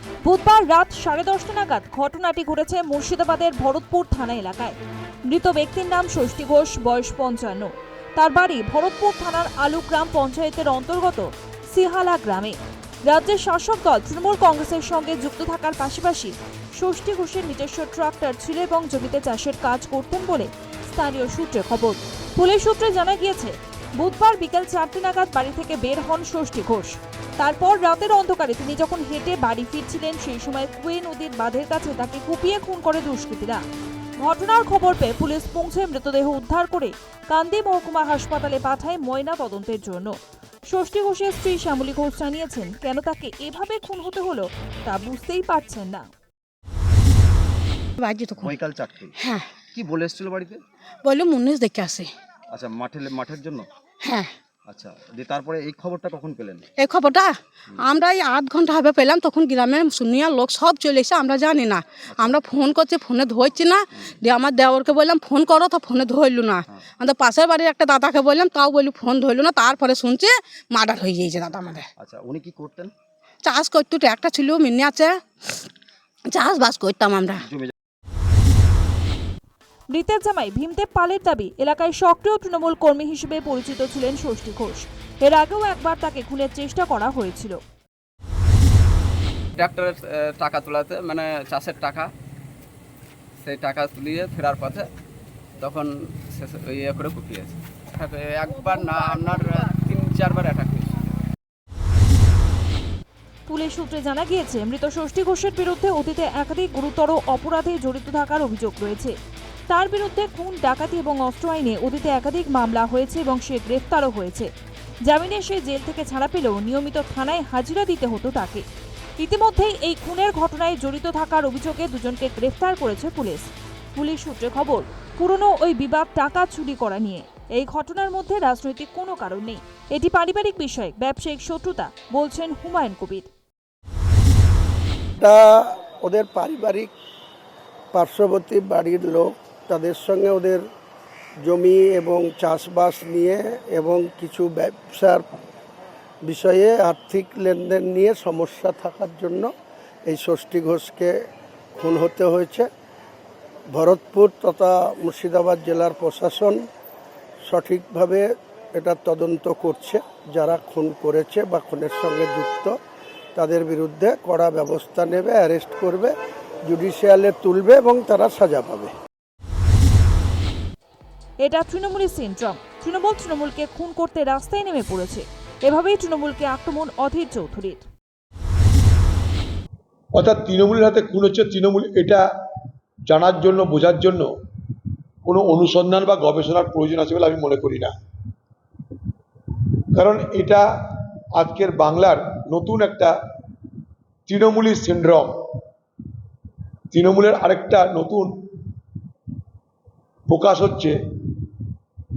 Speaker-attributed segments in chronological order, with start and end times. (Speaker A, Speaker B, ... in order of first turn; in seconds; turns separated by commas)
Speaker A: 0.2-4.8, Speaker A: 5.3-33.6, Speaker A: 34.2-40.1, Speaker A: 40.7-46.1, Speaker B: 48.0-48.6, Speaker C: 48.4-49.1, Speaker B: 49.2-49.6, Speaker C: 49.7-50.6, Speaker B: 51.0-52.1, Speaker C: 52.5-53.6, Speaker B: 54.0-54.3, Speaker C: 54.7-56.6, Speaker B: 56.8-71.9, Speaker C: 72.0-72.9, Speaker B: 73.4-75.7, Speaker B: 76.3-77.4, Speaker C: 77.4-77.7, Speaker A: 79.9-87.6, Speaker D: 89.6-92.1, Speaker D: 93.4-94.9, Speaker D: 95.6-101.1, Speaker A: 103.5-109.2, Speaker A: 109.7-114.5, Speaker A: 115.0-118.6, Speaker A: 119.2-133.3, Speaker E: 135.2-136.9, Speaker E: 137.9-140.6, Speaker E: 141.4-145.2, Speaker E: 146.2-149.5, Speaker E: 150.1-151.1, Speaker E: 151.8-152.7, Speaker E: 153.7-156.6, Speaker E: 157.5-162.7, Speaker E: 163.4-166.1, Speaker E: 166.7-168.9, Speaker A: 171.4-177.8, Speaker F: 180.1-182.2, Speaker F: 183.1-184.3, Speaker F: 185.2-187.9, Speaker F: 189.9-190.7, Speaker F: 191.4-193.2, Speaker F: 194.3-195.3, Speaker F: 196.9-198.4, Speaker F: 200.3-201.0